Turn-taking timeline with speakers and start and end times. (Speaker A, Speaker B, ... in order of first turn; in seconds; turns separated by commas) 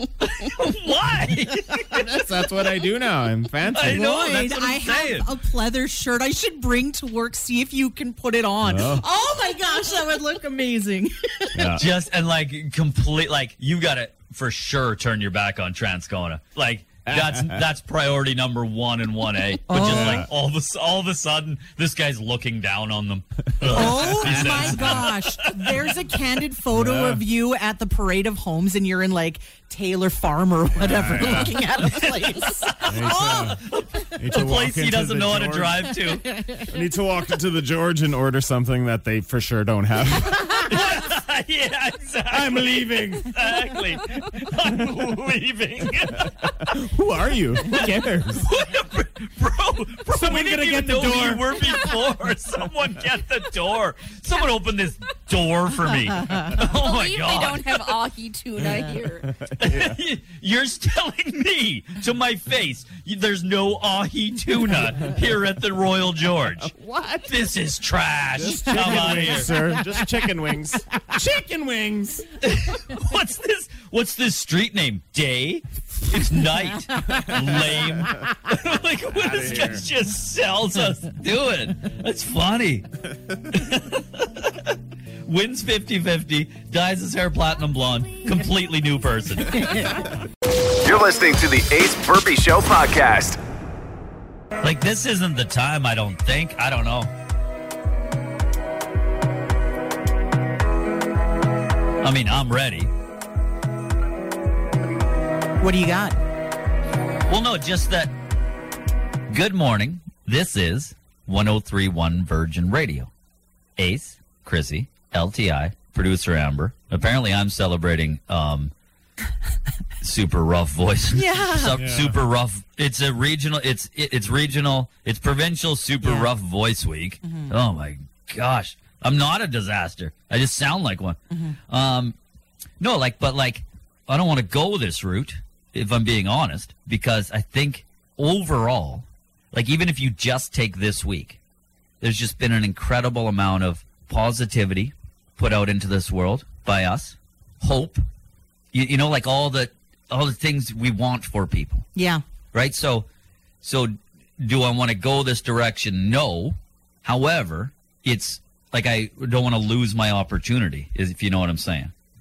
Speaker A: 0.2-2.4, Speaker B: 1.9-4.1, Speaker A: 3.7-5.3, Speaker C: 3.9-11.7, Speaker B: 8.6-9.0, Speaker B: 11.5-11.8, Speaker A: 11.7-25.9, Speaker B: 17.1-17.6, Speaker C: 19.7-20.2, Speaker B: 19.8-20.3, Speaker B: 23.6-25.1, Speaker C: 23.7-33.5, Speaker B: 26.7-27.2, Speaker B: 30.8-31.5, Speaker A: 31.8-36.2, Speaker B: 32.9-35.9, Speaker C: 36.2-36.6, Speaker B: 36.6-40.8, Speaker A: 40.5-46.8, Speaker B: 42.3-43.7, Speaker B: 46.2-48.5, Speaker A: 47.6-58.0, Speaker B: 50.1-51.8, Speaker D: 56.5-59.4, Speaker B: 59.4-60.0, Speaker A: 59.5-66.7, Speaker B: 66.6-67.3, Speaker A: 67.2-69.5, Speaker B: 68.3-72.3, Speaker C: 68.5-70.0, Speaker A: 72.4-82.9, Speaker B: 77.1-78.2, Speaker B: 79.1-79.8, Speaker A: 83.5-89.9, Speaker C: 89.5-90.0, Speaker E: 90.7-93.4, Speaker A: 94.6-97.1, Speaker A: 102.0-102.9, Speaker C: 105.6-106.2, Speaker A: 107.3-108.1, Speaker A: 109.3-113.1, Speaker A: 113.8-118.7, Speaker A: 120.0-132.1, Speaker C: 121.1-121.8, Speaker B: 121.8-122.2, Speaker C: 126.0-126.3, Speaker C: 127.2-127.5, Speaker C: 131.3-131.6, Speaker A: 132.8-141.4, Speaker A: 142.0-148.0, Speaker A: 148.7-151.9, Speaker C: 151.9-152.2, Speaker A: 152.5-153.1, Speaker A: 153.6-161.9